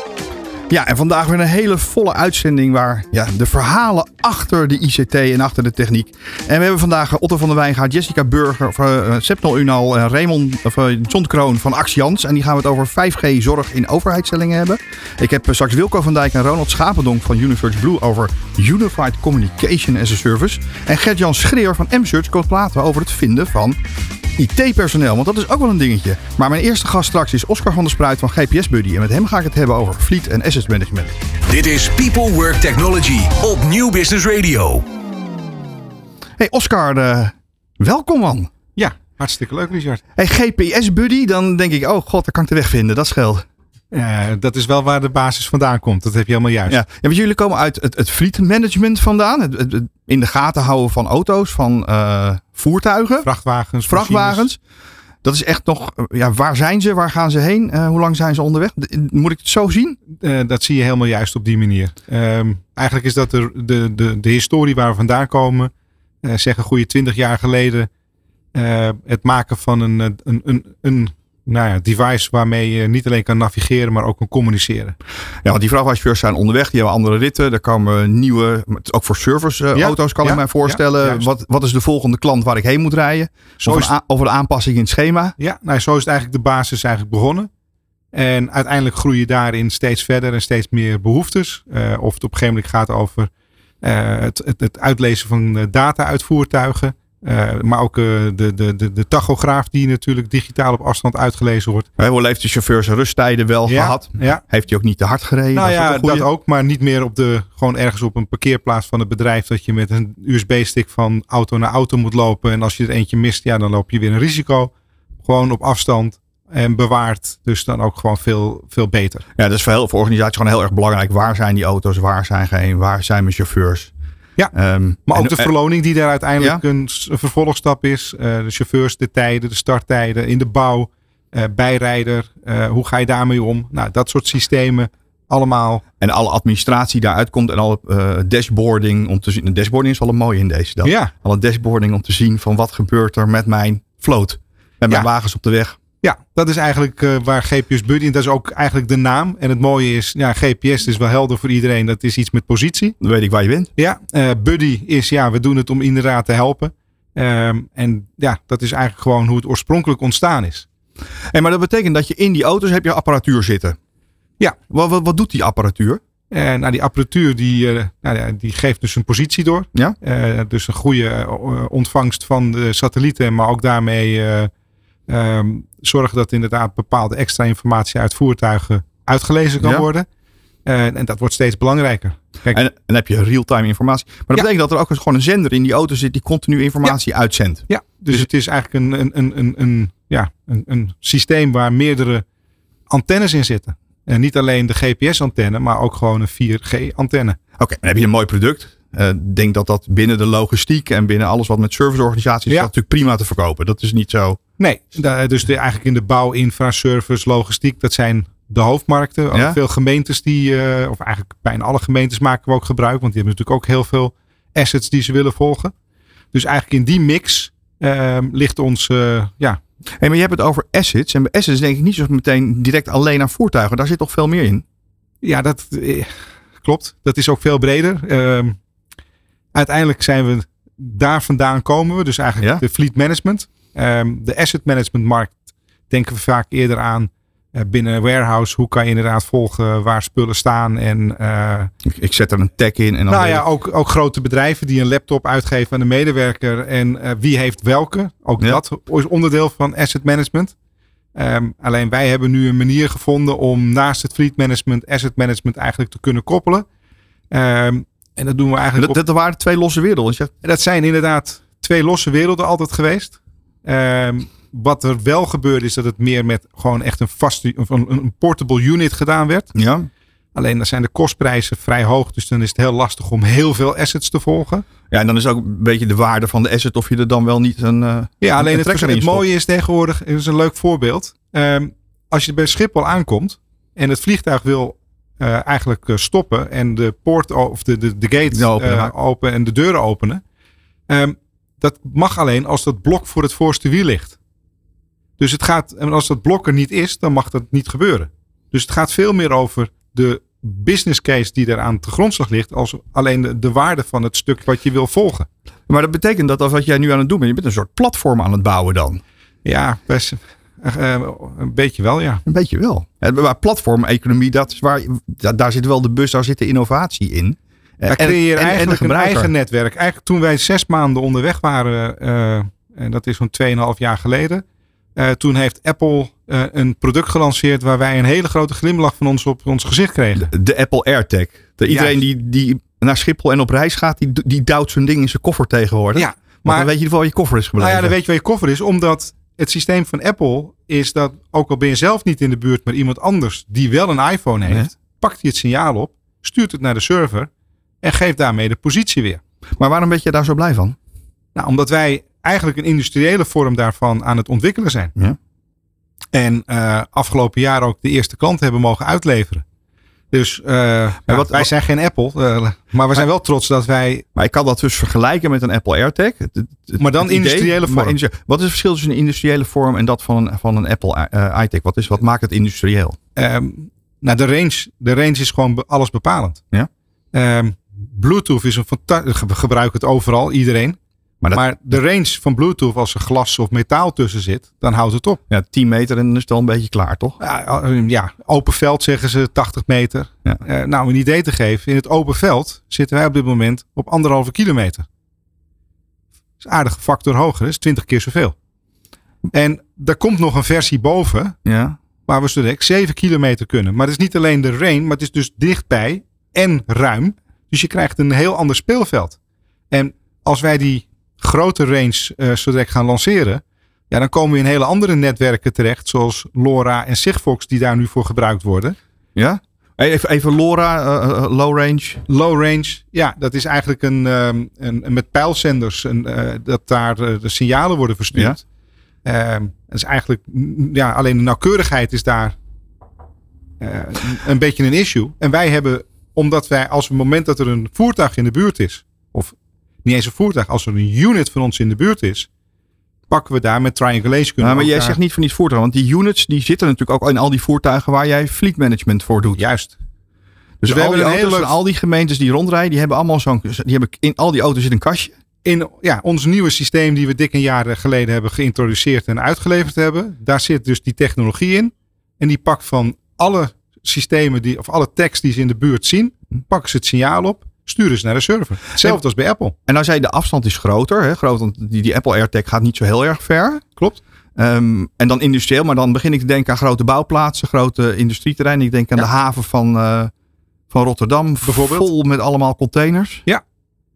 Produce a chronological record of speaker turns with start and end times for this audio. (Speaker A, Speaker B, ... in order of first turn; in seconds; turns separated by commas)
Speaker A: 0.7-23.8, Speaker A: 24.4-31.2, Speaker B: 31.5-34.8, Speaker A: 36.4-38.5, Speaker C: 38.8-40.0, Speaker A: 40.2-43.5, Speaker C: 43.9-46.8, Speaker A: 46.7-53.3, Speaker C: 53.2-54.5, Speaker A: 53.9-54.6, Speaker A: 55.2-60.0, Speaker C: 60.1-65.7, Speaker C: 66.2-67.9, Speaker C: 68.5-75.0, Speaker A: 75.4-85.4, Speaker C: 79.7-81.2, Speaker C: 83.6-83.9, Speaker C: 85.4-87.5, Speaker C: 88.1-93.3, Speaker C: 93.8-101.9, Speaker A: 102.0-106.3, Speaker C: 103.7-104.4, Speaker C: 105.5-114.7, Speaker C: 115.2-119.2, Speaker A: 119.4-123.9, Speaker A: 124.5-125.5, Speaker C: 125.1-135.8, Speaker A: 136.0-145.8, Speaker C: 140.8-141.1, Speaker C: 146.0-153.0, Speaker A: 153.0-153.7, Speaker C: 153.8-160.7, Speaker A: 161.3-163.8, Speaker A: 164.7-166.0, Speaker C: 166.3-174.5, Speaker C: 175.1-180.1, Speaker A: 179.6-179.8, Speaker C: 180.7-182.6, Speaker A: 182.5-188.3, Speaker C: 187.7-192.2, Speaker C: 192.9-197.4, Speaker A: 197.6-204.4, Speaker C: 204.6-215.7, Speaker A: 209.3-209.6, Speaker C: 216.3-219.6, Speaker A: 220.0-224.6, Speaker C: 225.2-228.6, Speaker C: 229.5-235.4, Speaker C: 235.9-241.7, Speaker A: 241.9-243.4, Speaker C: 243.1-250.5, Speaker C: 251.2-256.7, Speaker C: 257.3-259.0, Speaker A: 258.8-260.3, Speaker C: 260.4-269.5, Speaker A: 269.6-269.9, Speaker C: 270.4-274.6, Speaker A: 274.9-279.2, Speaker C: 278.2-290.2, Speaker A: 288.3-288.9, Speaker C: 290.9-294.2, Speaker C: 295.2-305.3, Speaker A: 305.7-309.0, Speaker C: 309.4-312.2, Speaker A: 312.3-319.3, Speaker C: 317.9-324.4, Speaker C: 325.0-330.3, Speaker A: 330.2-337.9, Speaker C: 331.7-332.0, Speaker C: 335.9-336.7, Speaker C: 337.6-347.3, Speaker C: 347.8-349.2, Speaker A: 349.6-350.8, Speaker C: 351.4-354.9, Speaker C: 356.1-359.4, Speaker C: 360.1-364.1, Speaker A: 361.1-361.5, Speaker A: 364.2-373.0, Speaker C: 366.8-368.0, Speaker C: 373.2-376.4, Speaker C: 377.1-380.8, Speaker A: 381.2-381.8, Speaker C: 381.3-385.2, Speaker A: 385.3-387.2, Speaker C: 387.2-394.9, Speaker C: 396.4-398.4, Speaker C: 399.3-401.4, Speaker A: 401.4-401.8, Speaker C: 402.1-409.2, Speaker C: 409.7-418.8, Speaker A: 419.1-422.0, Speaker C: 422.1-428.4, Speaker A: 428.1-428.4, Speaker C: 429.1-432.4, Speaker C: 433.6-442.3, Speaker C: 443.1-445.0, Speaker A: 444.4-449.4, Speaker C: 449.4-449.8, Speaker A: 450.6-455.1, Speaker C: 450.7-451.6, Speaker C: 455.4-469.6, Speaker A: 469.7-473.6, Speaker A: 474.4-480.1, Speaker A: 480.7-483.2, Speaker C: 481.4-481.9